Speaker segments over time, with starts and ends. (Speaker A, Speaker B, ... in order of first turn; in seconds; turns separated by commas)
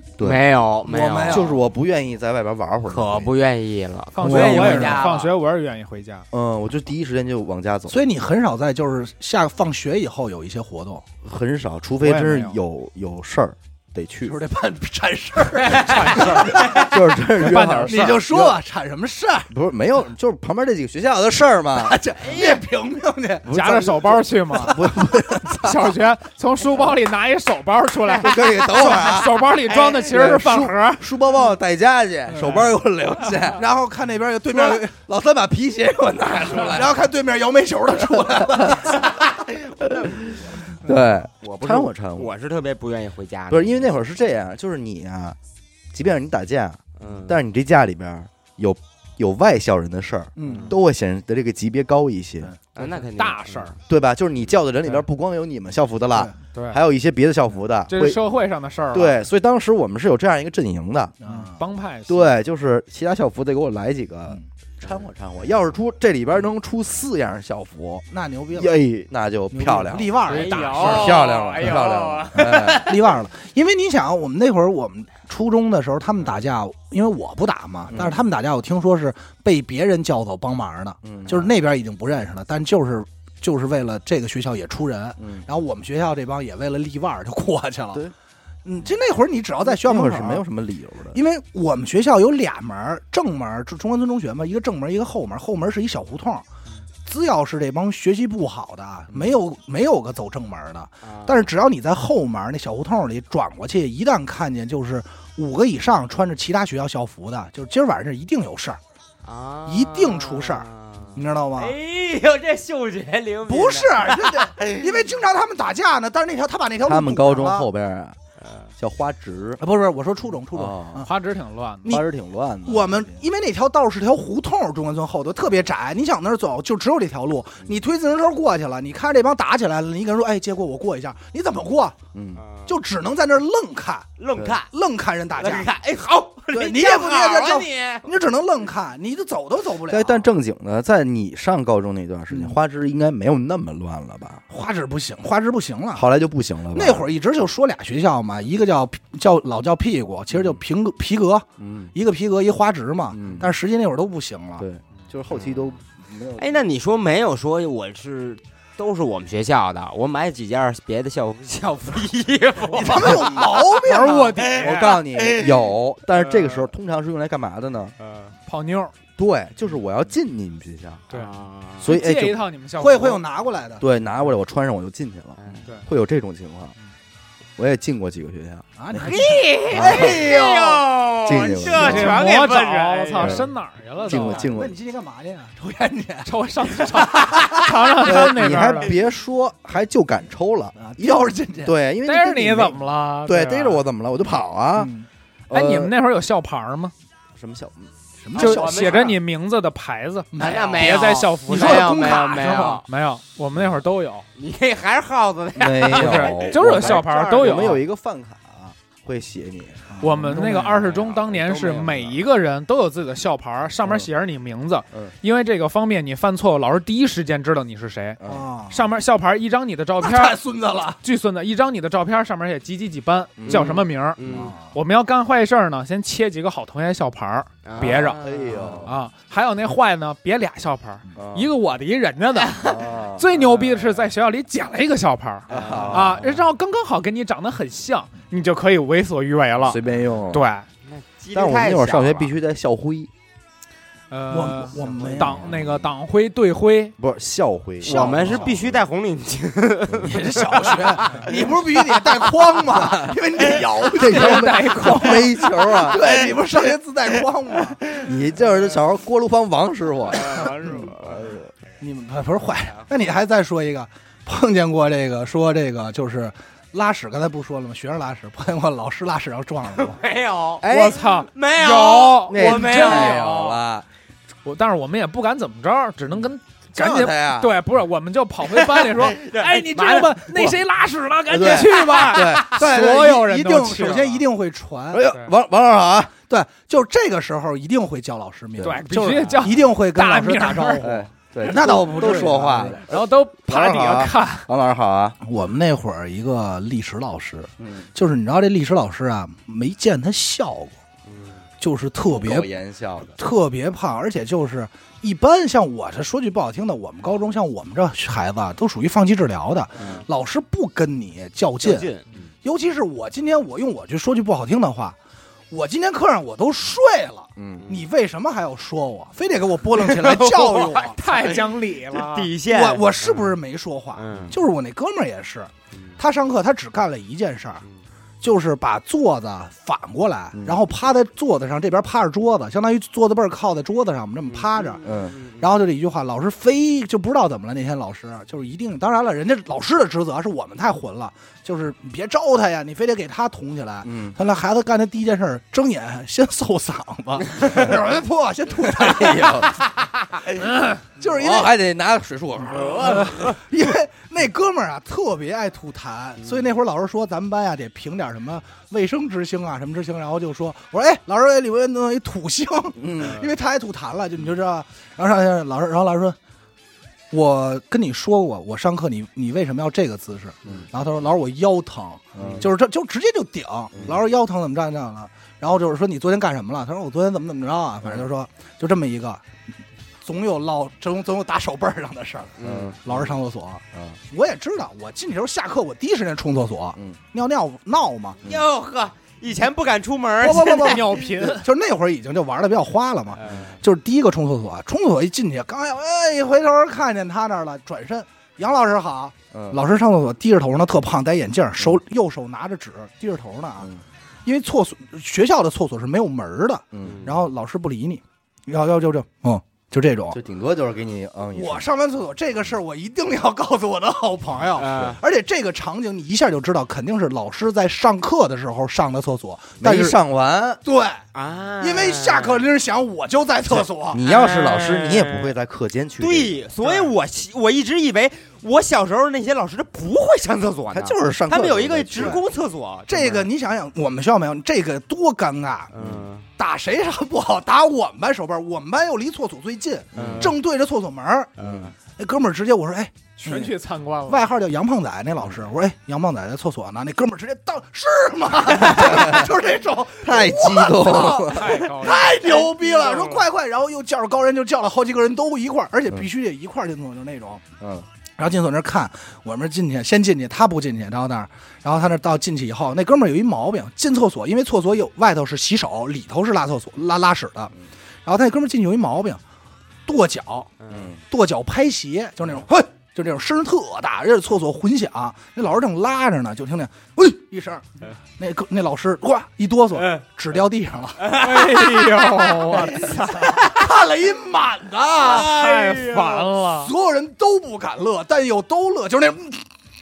Speaker A: 0.2-0.4, Speaker B: 0.2-1.6, Speaker C: 0.8-1.5, Speaker A: 1.2-3.3, Speaker B: 2.9-5.3, Speaker D: 4.1-6.2, Speaker A: 4.2-5.1, Speaker A: 6.3-8.0, Speaker C: 7.9-11.0, Speaker A: 11.2-14.4, Speaker D: 12.0-12.6, Speaker C: 14.2-16.9, Speaker B: 15.6-16.9, Speaker D: 15.8-16.8, Speaker A: 16.8-18.6, Speaker D: 17.4-18.2, Speaker C: 17.9-19.5, Speaker A: 19.5-22.0, Speaker C: 21.8-23.5, Speaker B: 22.2-22.6, Speaker A: 23.4-25.9, Speaker D: 23.5-24.8, Speaker D: 25.6-31.0, Speaker A: 28.2-29.4, Speaker A: 30.1-33.6, Speaker C: 32.3-32.6, Speaker C: 33.5-34.9, Speaker A: 34.5-37.0, Speaker C: 36.6-39.2, Speaker A: 40.8-42.3, Speaker B: 41.5-44.0, Speaker A: 43.5-45.4, Speaker A: 45.9-52.5, Speaker B: 47.0-47.4, Speaker C: 50.4-50.7, Speaker B: 50.4-50.8, Speaker B: 52.7-53.7, Speaker D: 52.8-53.8, Speaker A: 53.9-58.2, Speaker D: 56.5-56.8, Speaker D: 57.9-59.2, Speaker A: 58.9-61.1, Speaker C: 61.2-61.5, Speaker D: 61.5-62.3, Speaker A: 62.1-72.9, Speaker C: 68.1-68.8, Speaker C: 69.5-71.1, Speaker B: 70.2-73.1, Speaker D: 70.3-71.2, Speaker C: 72.3-88.0, Speaker A: 77.9-78.2, Speaker A: 81.0-81.5, Speaker A: 85.2-85.4, Speaker C: 88.6-90.4, Speaker A: 89.6-91.2, Speaker C: 91.1-96.4, Speaker C: 97.0-108.8, Speaker B: 101.0-101.4, Speaker B: 109.2-115.2, Speaker C: 109.7-111.7, Speaker C: 113.5-117.7, Speaker A: 116.8-118.2, Speaker B: 118.4-118.7, Speaker A: 118.8-119.6, Speaker C: 119.6-121.1, Speaker A: 120.5-121.0, Speaker D: 121.0-122.0, Speaker A: 121.8-123.1, Speaker C: 122.6-131.9, Speaker A: 132.1-132.4, Speaker B: 132.4-132.7, Speaker C: 132.7-134.1, Speaker B: 134.2-134.7, Speaker C: 134.7-135.7, Speaker B: 135.4-138.1, Speaker C: 136.5-140.2, Speaker A: 139.9-144.4, Speaker C: 142.3-142.6, Speaker C: 144.5-146.0, Speaker A: 145.9-147.1, Speaker C: 146.7-154.7, Speaker A: 150.3-150.6, Speaker A: 151.6-151.9, Speaker A: 153.1-153.5, Speaker A: 154.6-156.6, Speaker B: 155.3-155.7, Speaker B: 156.4-163.6, Speaker D: 162.7-163.2, Speaker C: 162.7-164.4, Speaker D: 163.8-165.0, Speaker A: 164.5-167.9, Speaker B: 166.1-166.7, Speaker B: 168.0-168.3, Speaker D: 168.5-168.9, Speaker A: 169.2-171.0, Speaker B: 171.1-171.9, Speaker A: 171.8-172.4, Speaker D: 171.8-173.2, Speaker C: 172.8-173.8, Speaker A: 173.8-176.7, Speaker B: 175.4-175.7, Speaker A: 177.6-178.7, Speaker C: 178.8-180.8, Speaker B: 178.9-183.4, Speaker A: 179.7-180.2, Speaker A: 181.2-182.2, Speaker D: 181.7-184.5, Speaker A: 183.2-183.5, Speaker A: 184.1-184.7, Speaker C: 184.3-186.3, Speaker D: 186.2-188.9, Speaker C: 186.8-187.7, Speaker A: 188.0-194.9, Speaker C: 190.8-191.7, Speaker D: 192.1-193.8, Speaker C: 194.8-195.1, Speaker A: 195.5-195.9, Speaker D: 195.5-196.9, Speaker A: 197.3-197.9, Speaker C: 198.2-198.7, Speaker B: 198.3-199.2, Speaker D: 198.3-201.9, Speaker C: 200.3-202.8, Speaker B: 200.4-202.8, Speaker D: 202.5-204.2, Speaker B: 204.4-206.5, Speaker A: 205.6-210.0, Speaker D: 205.9-207.8, Speaker C: 206.6-207.8, Speaker C: 209.9-210.8, Speaker D: 210.0-220.4, Speaker B: 210.6-212.2, Speaker A: 218.2-218.5, Speaker C: 218.2-218.8, Speaker C: 220.0-221.0, Speaker D: 221.0-228.2, Speaker A: 223.4-223.8, Speaker B: 223.5-224.5, Speaker C: 224.3-224.7, Speaker B: 227.6-228.8, Speaker A: 228.2-228.9, Speaker D: 228.8-232.6, Speaker A: 231.1-231.5, Speaker B: 232.4-232.8, Speaker A: 232.6-233.3, Speaker D: 233.2-239.8, Speaker A: 235.5-236.3, Speaker B: 235.5-236.4, Speaker A: 239.6-240.4, Speaker D: 240.3-240.7, Speaker B: 240.8-242.3, Speaker A: 241.3-243.1, Speaker D: 244.1-246.9, Speaker C: 244.3-245.5, Speaker A: 245.4-245.8, Speaker A: 247.0-248.8, Speaker B: 247.8-252.2, Speaker C: 247.8-248.4, Speaker C: 250.0-257.8, Speaker A: 252.8-253.1, Speaker A: 253.9-256.0, Speaker D: 254.0-255.3, Speaker B: 256.0-256.3, Speaker A: 258.0-261.5, Speaker B: 260.1-261.2, Speaker C: 260.3-260.9, Speaker C: 261.8-270.0, Speaker B: 269.7-273.2, Speaker A: 270.6-271.0, Speaker D: 270.6-273.6, Speaker A: 272.3-273.9, Speaker D: 274.4-284.2, Speaker A: 276.7-277.6, Speaker B: 278.5-280.2, Speaker A: 281.3-282.5, Speaker B: 281.7-282.6, Speaker C: 282.4-285.1, Speaker A: 284.9-286.1, Speaker C: 286.3-292.8, Speaker A: 288.6-288.8, Speaker D: 288.6-290.9, Speaker B: 289.0-289.4, Speaker A: 290.8-295.2, Speaker D: 292.8-294.5, Speaker C: 295.2-300.8, Speaker A: 297.6-297.9, Speaker B: 301.1-301.4, Speaker C: 301.6-302.5, Speaker A: 302.1-303.1, Speaker C: 303.1-311.9, Speaker B: 309.8-310.0, Speaker A: 309.8-310.1, Speaker B: 311.6-312.2, Speaker C: 312.4-315.0, Speaker C: 315.5-321.0, Speaker A: 317.4-317.7, Speaker B: 319.8-321.4, Speaker D: 320.9-322.3, Speaker B: 321.9-323.4, Speaker C: 322.5-327.6, Speaker B: 323.9-324.4, Speaker C: 328.2-351.5, Speaker A: 330.3-330.6, Speaker B: 334.3-335.5, Speaker A: 334.8-335.1, Speaker A: 343.8-344.1, Speaker A: 348.8-349.5, Speaker A: 351.0-353.3, Speaker C: 352.6-366.2, Speaker B: 356.2-356.5, Speaker A: 362.8-363.2, Speaker B: 363.0-363.3, Speaker C: 367.1-379.2, Speaker A: 372.1-372.5, Speaker B: 372.2-372.5, Speaker A: 373.7-374.1, Speaker C: 380.0-388.2, Speaker B: 382.4-382.7, Speaker A: 382.4-383.1, Speaker B: 388.2-391.1, Speaker C: 390.2-403.7, Speaker D: 390.3-391.4, Speaker B: 393.1-393.6, Speaker A: 393.2-393.5, Speaker A: 399.3-399.6, Speaker C: 404.2-410.2, Speaker A: 406.7-407.1, Speaker B: 406.8-407.2, Speaker A: 410.1-411.7, Speaker C: 411.3-420.0, Speaker B: 414.5-415.0, Speaker A: 419.6-420.6, Speaker C: 420.6-421.0, Speaker B: 421.1-422.5, Speaker C: 421.6-424.0, Speaker A: 423.5-426.4, Speaker B: 424.0-425.3, Speaker B: 426.0-433.3, Speaker A: 430.7-432.2, Speaker C: 431.9-432.2, Speaker C: 432.9-435.7, Speaker B: 435.7-436.3, Speaker A: 435.8-436.0, Speaker C: 436.4-441.3, Speaker A: 439.9-440.3, Speaker B: 439.9-440.3, Speaker B: 441.4-441.7, Speaker A: 441.4-441.7, Speaker C: 441.9-443.5, Speaker D: 443.2-444.3, Speaker C: 444.1-457.4, Speaker A: 448.6-449.3, Speaker A: 450.0-451.6, Speaker D: 451.2-452.2, Speaker B: 451.4-453.2, Speaker A: 457.6-457.9, Speaker C: 458.2-467.5, Speaker C: 468.0-469.2, Speaker C: 469.9-470.5, Speaker B: 470.6-470.9, Speaker A: 470.7-471.0, Speaker C: 471.1-481.2, Speaker B: 479.7-480.0, Speaker B: 481.0-483.5, Speaker D: 481.1-483.4, Speaker C: 483.3-485.3, Speaker B: 485.0-486.3, Speaker D: 485.1-486.7, Speaker C: 486.6-489.5